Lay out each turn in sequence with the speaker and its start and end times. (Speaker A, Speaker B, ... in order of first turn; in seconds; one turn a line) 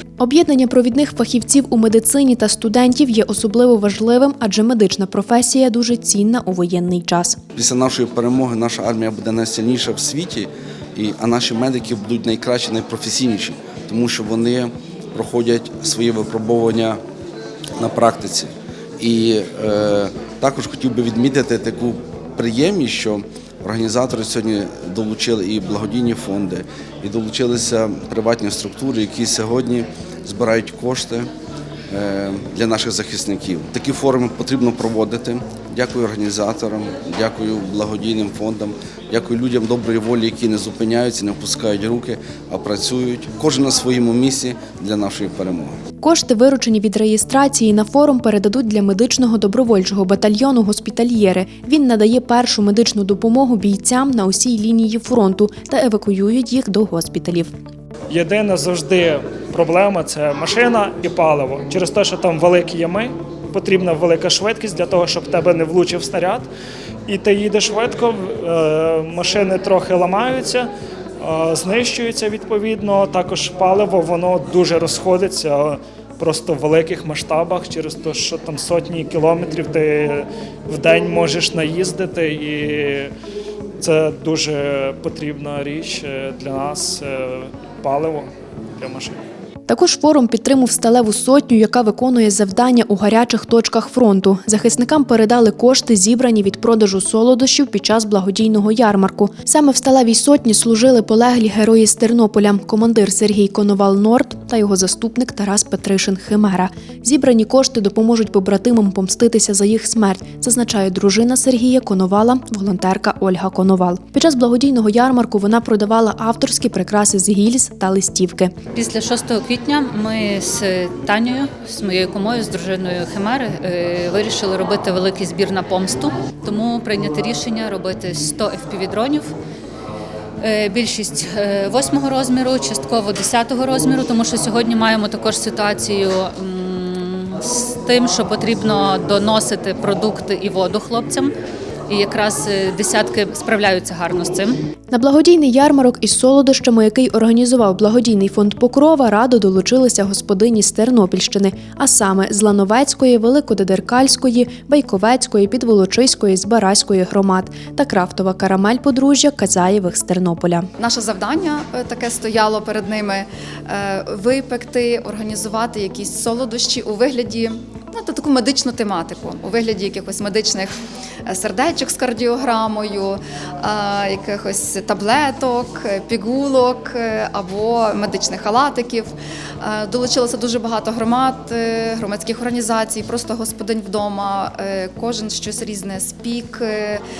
Speaker A: 0.2-7.4
Speaker B: 7.5-17.0
Speaker B: 17.8-31.3
Speaker B: 31.9-45.8
Speaker A: 46.0-57.5
Speaker C: 58.1-66.5
Speaker C: 67.1-70.7
Speaker C: 71.2-83.1
Speaker C: 83.8-88.3
Speaker C: 88.8-89.2
Speaker A: 89.7-118.5
Speaker D: 118.7-129.3
Speaker D: 130.4-141.3
Speaker D: 141.9-144.6
Speaker A: 144.9-160.7
Speaker E: 160.8-170.7
Speaker E: 171.3-179.1
Speaker E: 179.6-186.9